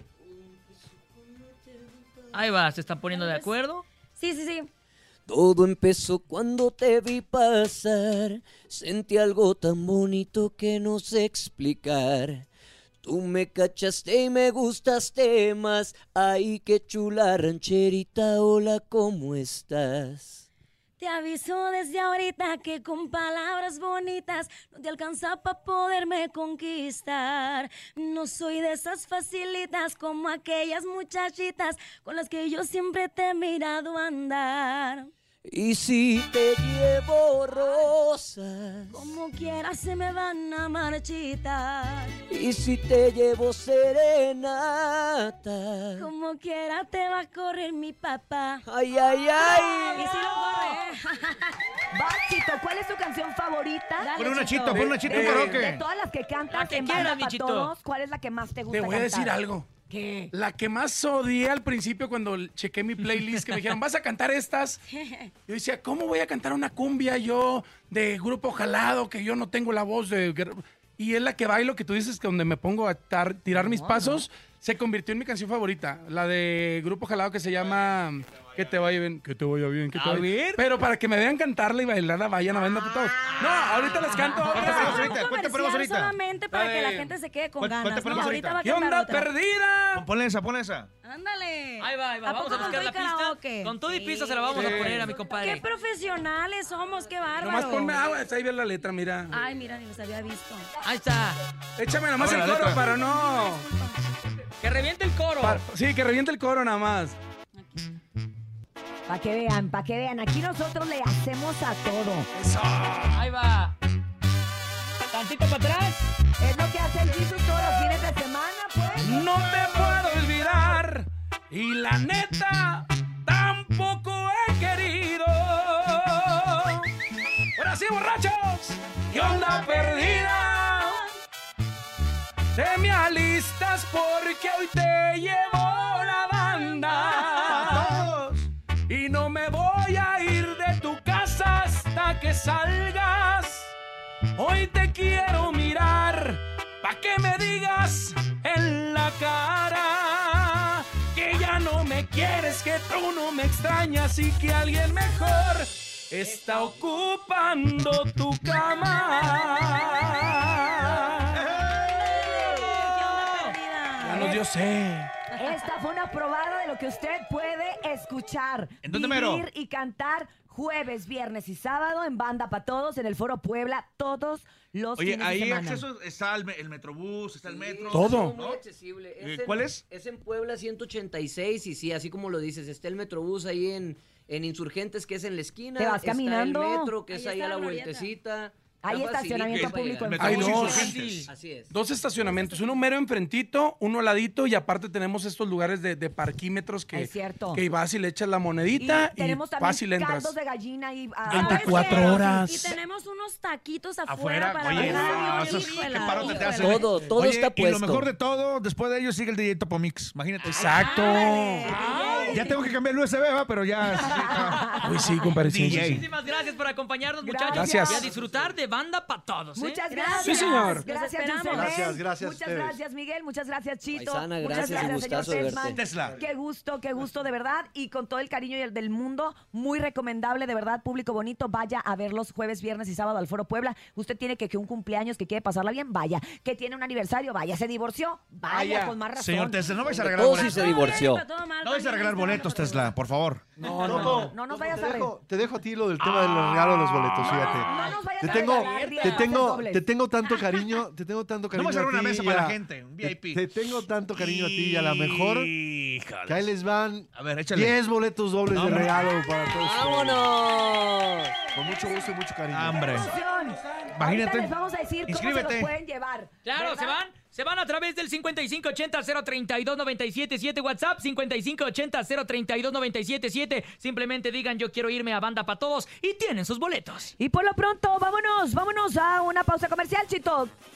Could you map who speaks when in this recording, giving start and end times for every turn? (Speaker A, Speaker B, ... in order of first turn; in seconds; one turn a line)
Speaker A: 0.3-1.8
Speaker B: 2.3-3.8
Speaker C: 3.1-3.5
Speaker C: 4.2-4.7
Speaker A: 5.3-12.4
Speaker A: 13.0-20.4
Speaker C: 21.0-35.1
Speaker A: 35.5-39.1
Speaker C: 38.9-42.2
Speaker A: 42.3-46.1
Speaker C: 46.0-48.6
Speaker A: 48.6-50.1
Speaker C: 49.4-51.6
Speaker D: 51.9-54.1
Speaker C: 54.0-55.0
Speaker E: 54.2-55.8
Speaker F: 54.7-55.6
Speaker D: 54.9-59.4
Speaker B: 56.5-57.7
Speaker F: 58.7-59.7
Speaker D: 59.9-60.3
Speaker F: 60.3-64.8
Speaker B: 63.0-63.5
Speaker C: 64.9-65.3
Speaker F: 65.5-85.0
Speaker D: 73.5-74.2
Speaker B: 79.9-80.6
Speaker D: 82.5-84.5
Speaker E: 84.5-86.2
Speaker C: 84.5-89.3
Speaker F: 86.5-87.1
Speaker E: 87.6-88.6
Speaker F: 88.6-90.1
Speaker E: 89.9-90.9
Speaker C: 91.0-98.1
Speaker B: 91.8-95.6
Speaker F: 94.5-95.1
Speaker F: 97.4-99.4
Speaker C: 99.3-100.7
Speaker B: 100.8-101.4
Speaker F: 101.8-103.7
Speaker E: 102.2-102.8
Speaker C: 102.6-104.0
Speaker B: 104.6-105.6
Speaker F: 105.4-107.2
Speaker C: 107.5-107.8
Speaker D: 109.1-112.3
Speaker F: 112.3-113.2
Speaker B: 113.1-113.7
Speaker B: 115.1-116.1
Speaker D: 116.4-119.2
Speaker F: 119.0-126.9
Speaker F: 127.5-131.0
Speaker C: 129.1-130.6
Speaker F: 132.5-138.0
Speaker E: 137.1-138.5
Speaker F: 138.9-143.7
Speaker F: 144.3-161.4
Speaker E: 161.4-162.6
Speaker C: 162.0-164.4
Speaker B: 163.0-163.6
Speaker F: 164.0-165.1
Speaker D: 165.4-175.8
Speaker E: 168.8-169.5
Speaker E: 175.0-178.6
Speaker A: 177.4-191.7
Speaker F: 177.9-178.4
Speaker E: 179.2-179.8
Speaker D: 185.8-186.9
Speaker C: 187.1-188.1
Speaker D: 188.8-190.9
Speaker E: 189.5-191.2
Speaker F: 190.2-190.9
Speaker B: 190.5-191.3
Speaker F: 191.7-200.4
Speaker D: 196.9-197.6
Speaker D: 198.8-202.5
Speaker F: 201.2-202.8
Speaker C: 201.3-206.8
Speaker E: 201.4-202.1
Speaker E: 204.1-210.7
Speaker D: 204.7-205.4
Speaker B: 205.5-206.6
Speaker A: 206.5-208.1
Speaker B: 210.4-212.4
Speaker F: 210.5-212.2
Speaker D: 210.9-212.3
Speaker C: 211.2-212.6
Speaker E: 212.2-214.8
Speaker D: 214.0-214.9
Speaker B: 214.5-214.8
Speaker F: 214.8-216.0
Speaker E: 215.4-216.1
Speaker B: 215.8-219.8
Speaker D: 217.2-218.1
Speaker F: 217.5-218.0
Speaker D: 219.5-240.3
Speaker C: 219.9-221.9
Speaker F: 220.1-220.9
Speaker G: 221.5-222.8
Speaker A: 223.9-225.8
Speaker C: 224.5-224.8
Speaker E: 225.6-226.2
Speaker F: 238.5-239.1
Speaker E: 239.1-241.1
Speaker A: 240.1-241.2
Speaker C: 240.2-242.9
Speaker E: 241.6-243.6
Speaker F: 243.6-244.3
Speaker G: 243.8-255.5
Speaker D: 243.8-245.1
Speaker E: 246.0-247.7
Speaker B: 247.3-249.3
Speaker D: 247.6-249.9
Speaker E: 251.5-253.4
Speaker E: 254.2-256.5
Speaker G: 256.2-260.3
Speaker E: 257.1-257.8
Speaker E: 258.5-259.1
Speaker A: 259.5-261.4
Speaker G: 261.5-263.0
Speaker E: 262.5-263.1
Speaker D: 262.8-267.0
Speaker E: 263.9-264.5
Speaker E: 265.1-265.7
Speaker B: 266.4-277.1
Speaker D: 277.2-280.5